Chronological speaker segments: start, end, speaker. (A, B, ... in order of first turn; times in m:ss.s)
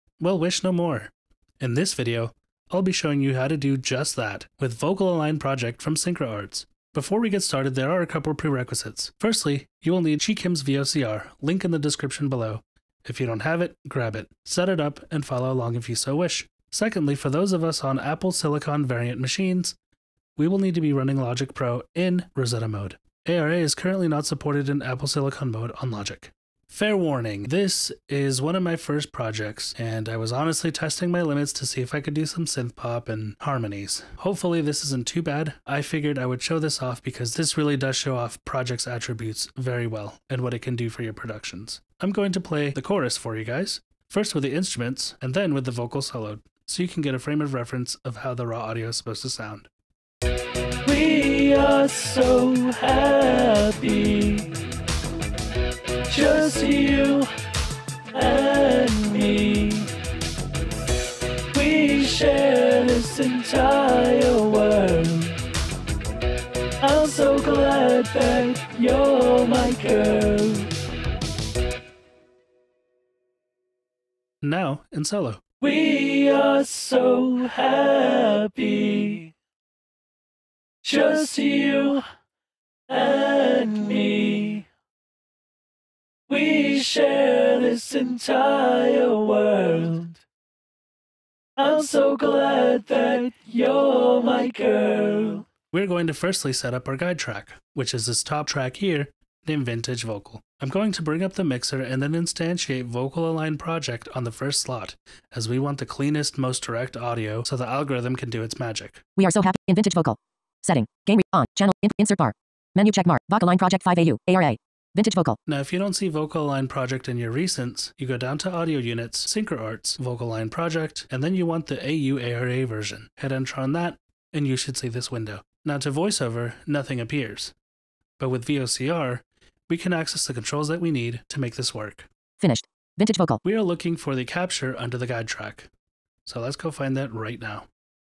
0:00.2-0:19.8 A
0:20.4-0:49.7 A
0:50.8-0:54.6 B
0:56.1-0:57.3 B
0:58.1-0:59.9 B
1:01.6-1:05.4 B
1:01.6-1:02.2 A
1:03.0-1:03.5 A
1:06.8-1:10.7 B
1:14.4-1:15.6 A
1:15.6-1:19.3 B
1:20.8-1:22.0 B
1:22.9-1:24.7 B
1:26.3-1:30.2 B
1:31.6-1:35.5 B
1:35.7-1:49.0 A
1:49.2-1:55.4 C
1:55.5-2:07.5 A
2:08.2-2:12.1 A
2:12.4-2:13.4 C
2:13.4-2:15.7 A
2:16.3-2:17.7 A